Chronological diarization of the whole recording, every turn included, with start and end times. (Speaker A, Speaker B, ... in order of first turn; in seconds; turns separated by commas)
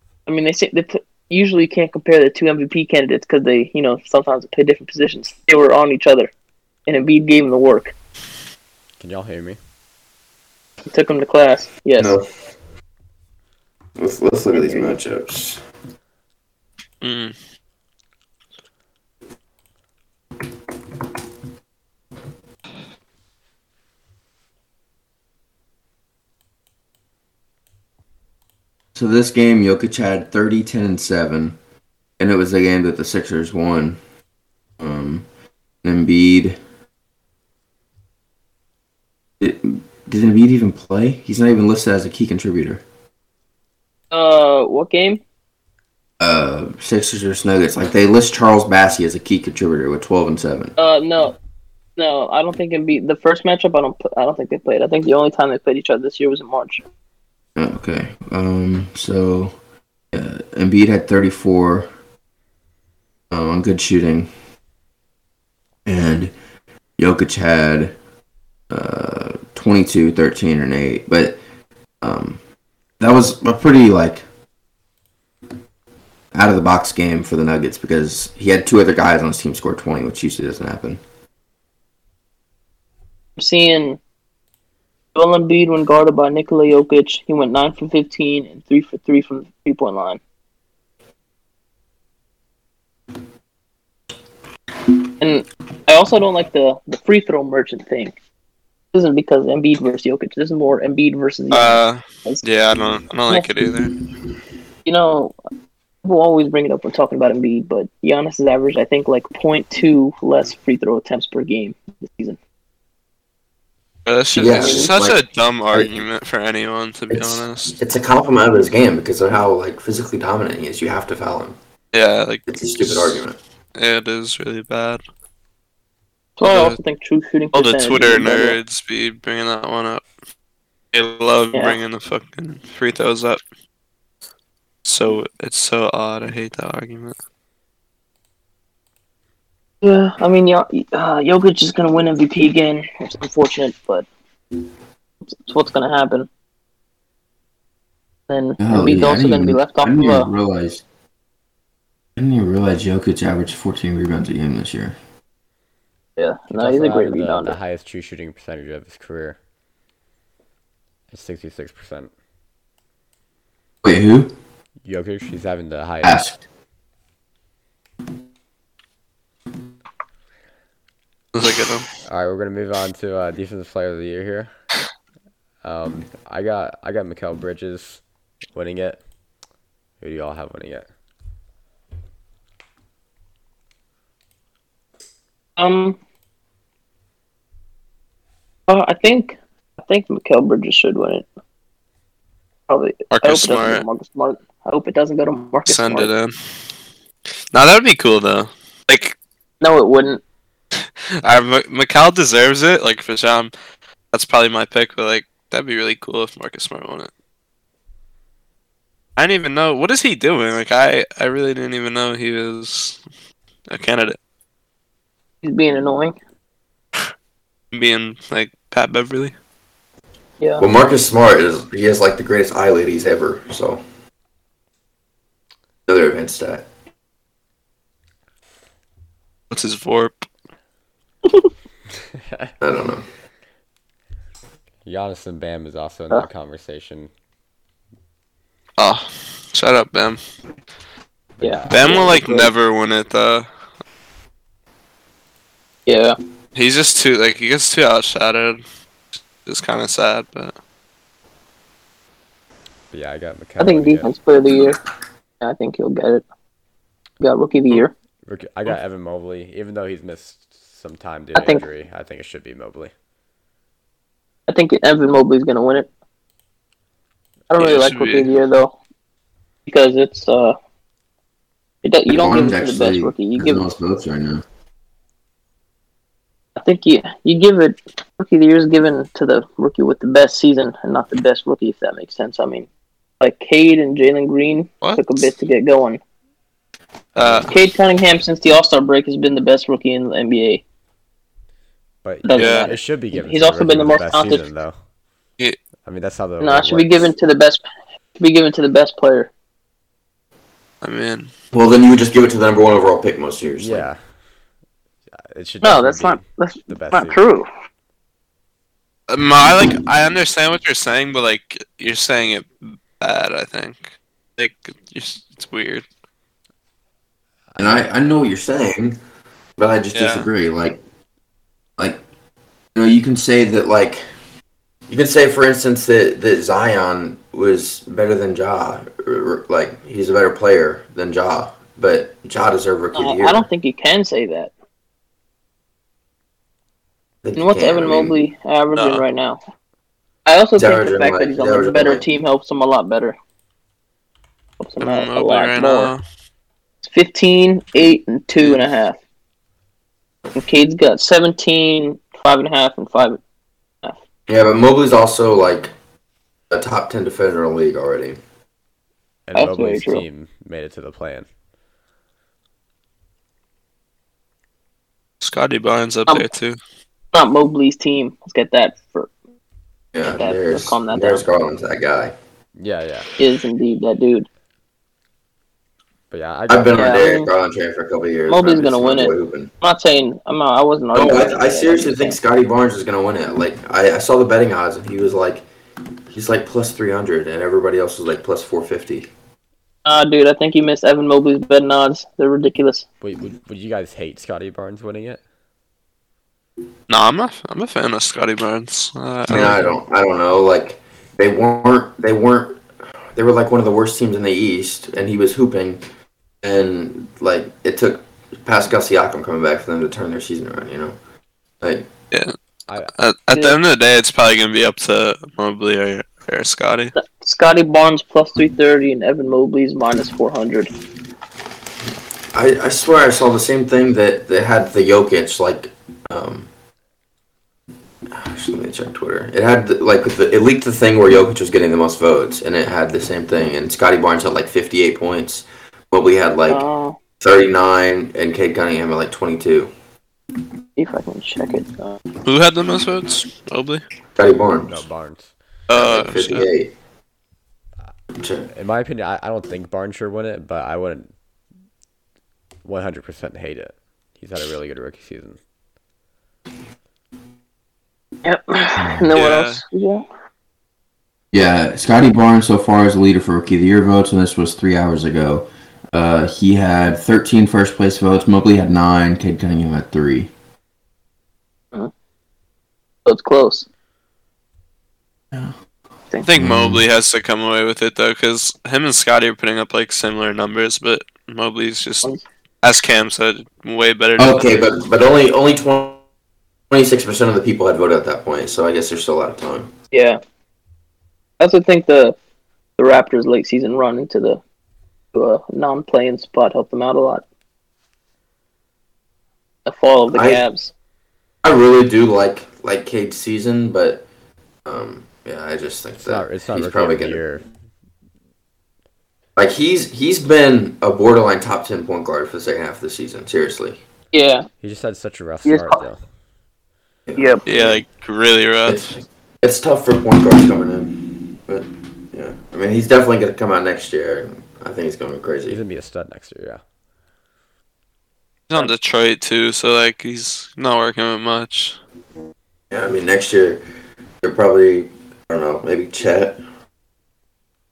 Speaker A: 0.3-6.3, Speaker A: 6.9-7.9, Speaker B: 9.0-9.6, Speaker A: 10.9-12.1, Speaker C: 12.0-12.2, Speaker C: 14.0-15.6, Speaker A: 14.5-15.0, Speaker D: 17.0-17.3, Speaker C: 28.9-31.6, Speaker C: 32.2-34.0, Speaker C: 34.8-35.3, Speaker C: 35.8-36.6, Speaker C: 39.4-42.8, Speaker A: 44.1-45.2, Speaker C: 46.2-50.8, Speaker A: 50.8-51.4, Speaker A: 52.0-56.8, Speaker C: 57.6-59.5, Speaker C: 60.1-61.9, Speaker C: 63.3-64.3, Speaker C: 65.9-66.3, Speaker C: 67.0-67.9, Speaker C: 68.7-71.4, Speaker C: 72.0-72.4, Speaker C: 73.0-74.2, Speaker C: 76.3-81.0, Speaker A: 83.4-84.0, Speaker A: 85.1-90.2, Speaker A: 95.2-98.1, Speaker A: 98.9-102.4, Speaker D: 101.5-103.9, Speaker A: 104.8-105.3, Speaker A: 106.0-112.4, Speaker D: 114.1-117.8, Speaker C: 114.3-115.2, Speaker A: 114.5-114.9, Speaker C: 117.1-121.6, Speaker D: 121.9-123.2, Speaker C: 122.5-123.4, Speaker D: 123.8-125.0, Speaker A: 126.4-128.6, Speaker D: 126.4-126.8, Speaker D: 127.5-130.0, Speaker D: 130.9-133.4, Speaker D: 134.8-137.1, Speaker A: 139.8-144.1, Speaker A: 145.3-146.3, Speaker A: 148.3-150.3, Speaker C: 148.6-150.8, Speaker C: 152.2-155.0, Speaker A: 156.2-157.6, Speaker B: 156.5-159.4, Speaker B: 161.1-162.1, Speaker C: 163.8-164.3, Speaker B: 164.8-166.2, Speaker C: 166.0-166.4, Speaker D: 171.3-171.9, Speaker B: 172.1-174.5, Speaker B: 175.6-178.0, Speaker B: 178.5-179.0, Speaker B: 180.0-180.9, Speaker A: 185.6-186.0, Speaker A: 188.7-191.3, Speaker A: 192.7-196.1, Speaker D: 193.1-193.8, Speaker D: 195.7-196.3, Speaker D: 197.5-199.2, Speaker A: 199.6-200.2, Speaker D: 201.2-203.5, Speaker D: 204.1-207.1, Speaker D: 209.2-213.0, Speaker D: 213.7-214.2, Speaker A: 215.4-216.2, Speaker D: 217.7-219.3, Speaker A: 220.4-220.7, Speaker C: 220.6-223.8, Speaker C: 225.9-226.7, Speaker D: 229.5-230.1, Speaker B: 232.2-232.5, Speaker C: 232.6-233.0, Speaker B: 234.8-237.1, Speaker D: 238.8-240.2, Speaker B: 241.4-241.8, Speaker A: 241.4-242.5, Speaker D: 241.7-243.5, Speaker A: 245.9-246.2, Speaker D: 246.5-248.6, Speaker D: 249.4-250.5, Speaker B: 252.9-254.1, Speaker A: 253.6-254.8, Speaker A: 255.4-256.2, Speaker A: 257.2-257.9, Speaker B: 258.2-262.9, Speaker A: 261.4-261.6, Speaker A: 264.5-265.9, Speaker A: 267.5-268.8, Speaker D: 267.6-268.3, Speaker A: 269.6-270.6, Speaker A: 271.8-273.6, Speaker C: 272.1-274.4, Speaker A: 276.6-282.7, Speaker A: 283.2-286.0, Speaker D: 287.1-287.5, Speaker B: 287.1-287.5, Speaker A: 287.5-290.6, Speaker B: 292.0-294.8, Speaker A: 292.2-294.4, Speaker D: 292.4-292.7, Speaker B: 295.8-297.1, Speaker A: 296.4-297.6, Speaker A: 298.2-299.3, Speaker D: 300.8-301.3, Speaker C: 301.5-303.9, Speaker B: 303.6-304.0, Speaker B: 305.3-307.2, Speaker A: 305.6-307.5, Speaker D: 309.1-315.9, Speaker B: 317.5-317.8, Speaker C: 317.6-319.0, Speaker C: 319.6-320.8, Speaker D: 319.9-320.3, Speaker C: 321.8-322.0, Speaker C: 322.8-324.0, Speaker C: 324.9-333.5, Speaker A: 332.9-334.5, Speaker C: 337.2-338.1, Speaker A: 337.4-339.4, Speaker D: 338.7-339.0, Speaker A: 340.2-343.1, Speaker C: 340.6-342.0, Speaker A: 344.6-345.9, Speaker D: 344.8-346.0, Speaker A: 346.8-349.0, Speaker A: 350.4-353.2, Speaker C: 354.3-355.7, Speaker C: 356.5-358.2, Speaker B: 359.3-361.2, Speaker A: 359.3-360.0, Speaker D: 365.2-366.6, Speaker A: 367.1-369.1, Speaker C: 369.9-372.1, Speaker A: 370.1-371.2, Speaker B: 372.6-373.1, Speaker A: 373.2-374.3, Speaker B: 376.1-377.0, Speaker C: 376.5-379.5, Speaker A: 376.7-377.3, Speaker A: 378.3-382.2, Speaker C: 380.9-385.5, Speaker C: 386.1-389.1, Speaker A: 389.9-392.9, Speaker B: 393.0-395.2, Speaker D: 396.9-399.7, Speaker C: 399.3-402.6, Speaker C: 403.1-405.8, Speaker C: 406.4-411.0, Speaker C: 411.6-411.9, Speaker D: 412.1-416.9, Speaker A: 416.9-420.7, Speaker C: 422.3-426.5, Speaker C: 428.1-436.6, Speaker A: 436.5-437.0, Speaker C: 437.2-439.7, Speaker A: 440.8-442.0, Speaker D: 442.2-443.8, Speaker C: 444.2-444.8, Speaker B: 444.7-445.3, Speaker D: 445.7-446.5, Speaker C: 445.7-446.7, Speaker C: 448.1-448.5, Speaker B: 448.5-451.1, Speaker B: 452.6-455.4, Speaker A: 458.2-460.0, Speaker C: 458.8-459.1, Speaker D: 459.1-459.6, Speaker C: 461.3-470.3, Speaker A: 473.1-473.6, Speaker D: 476.2-482.1, Speaker C: 476.4-476.8, Speaker D: 482.6-484.8, Speaker C: 484.2-486.0, Speaker C: 486.7-489.7, Speaker A: 489.9-490.2, Speaker A: 491.4-492.1, Speaker A: 492.8-494.4, Speaker A: 495.1-497.2, Speaker A: 499.6-500.7, Speaker C: 500.1-500.4, Speaker C: 501.4-504.1, Speaker C: 504.6-507.2, Speaker B: 506.0-507.4, Speaker C: 509.4-513.8, Speaker A: 514.1-514.5, Speaker B: 514.6-516.0, Speaker A: 515.4-515.8, Speaker C: 517.1-517.8, Speaker A: 517.1-517.4, Speaker D: 517.5-518.9, Speaker C: 518.6-525.6, Speaker B: 525.5-526.6, Speaker D: 528.5-531.8, Speaker C: 532.7-533.6, Speaker C: 534.2-536.4